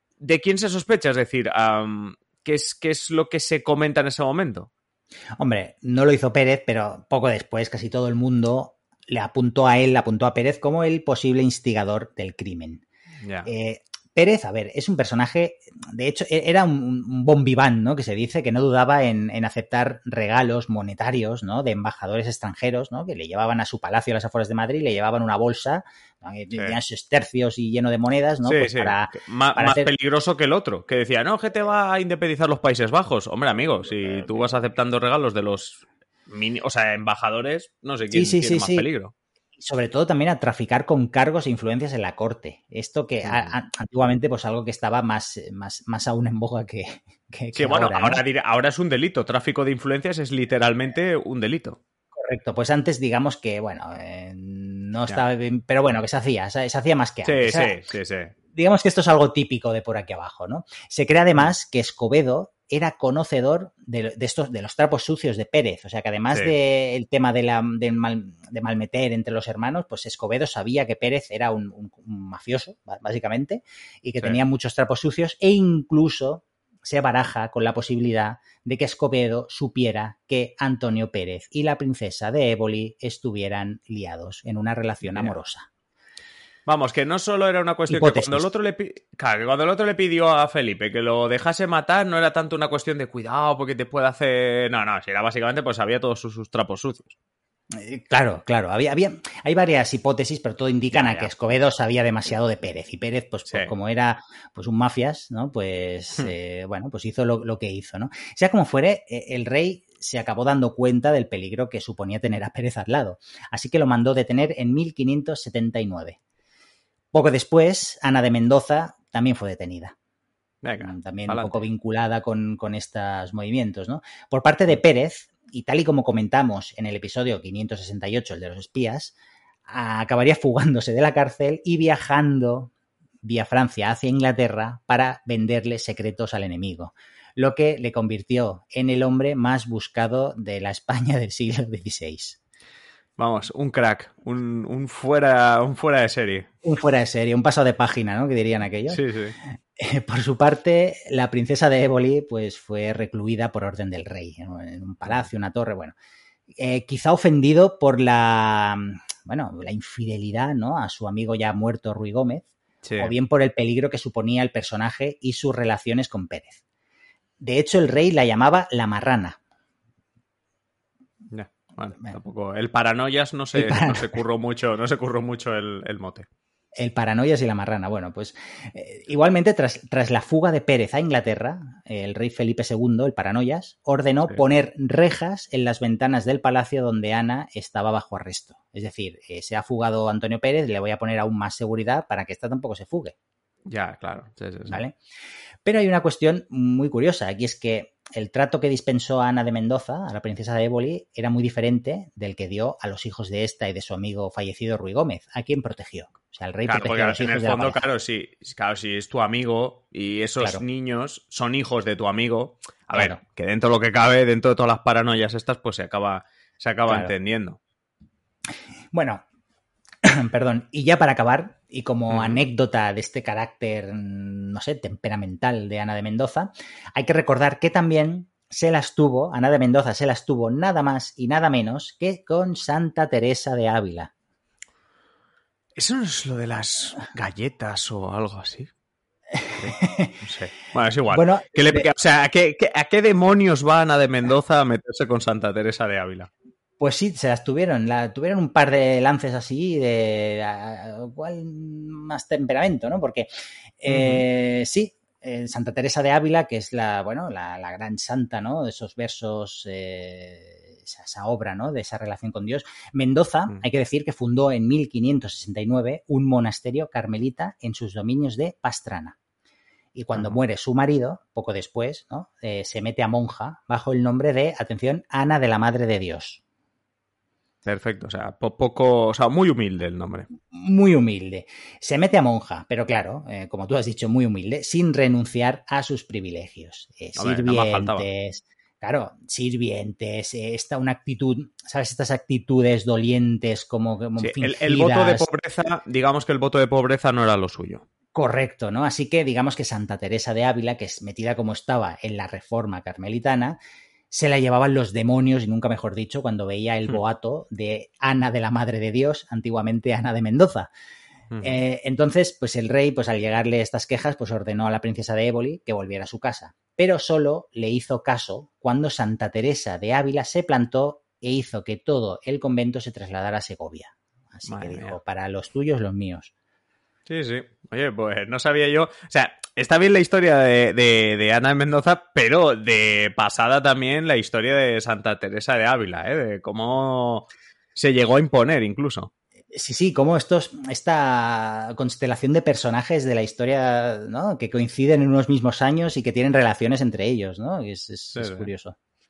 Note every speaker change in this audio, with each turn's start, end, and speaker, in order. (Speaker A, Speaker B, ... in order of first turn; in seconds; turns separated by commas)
Speaker A: 0.2-4.7, Speaker B: 5.4-12.8, Speaker A: 13.2-13.5, Speaker B: 13.4-29.9, Speaker A: 28.4-39.1, Speaker B: 38.1-38.9, Speaker B: 39.6-48.2, Speaker A: 43.2-43.5, Speaker A: 47.5-51.8, Speaker B: 52.1-57.8, Speaker A: 57.2-58.3, Speaker B: 58.5-85.7, Speaker A: 85.0-85.3, Speaker A: 86.7-97.1, Speaker B: 87.9-88.5, Speaker B: 97.7-116.2, Speaker A: 100.9-101.3, Speaker A: 103.5-103.7, Speaker B: 117.1-119.9, Speaker A: 120.6-121.7, Speaker B: 120.8-129.1, Speaker B: 129.7-132.7, Speaker B: 133.2-142.4, Speaker A: 143.2-146.5, Speaker B: 146.6-149.0, Speaker A: 148.9-149.4, Speaker B: 149.8-155.9, Speaker B: 156.6-166.6, Speaker A: 162.8-163.1, Speaker B: 167.4-169.4, Speaker A: 171.3-176.3, Speaker B: 173.6-174.1, Speaker B: 176.8-193.1, Speaker A: 193.7-194.8, Speaker B: 194.7-194.9, Speaker B: 195.6-207.8, Speaker A: 206.7-217.6, Speaker B: 212.9-213.2, Speaker B: 216.9-217.1, Speaker B: 218.9-219.2, Speaker B: 220.0-234.1, Speaker A: 222.1-222.4, Speaker A: 235.8-238.7, Speaker B: 239.3-240.1, Speaker A: 239.6-246.3, Speaker B: 241.1-241.9, Speaker B: 246.8-253.3, Speaker B: 253.8-269.1, Speaker A: 253.9-254.2, Speaker B: 269.9-276.4, Speaker A: 277.6-280.3, Speaker B: 280.5-295.3, Speaker A: 287.1-288.1, Speaker A: 294.2-297.8, Speaker B: 298.1-303.6, Speaker B: 304.1-310.7, Speaker A: 311.3-311.6, Speaker B: 311.4-326.3, Speaker A: 324.4-325.0, Speaker A: 327.1-339.1, Speaker B: 339.5-348.7, Speaker A: 348.1-348.5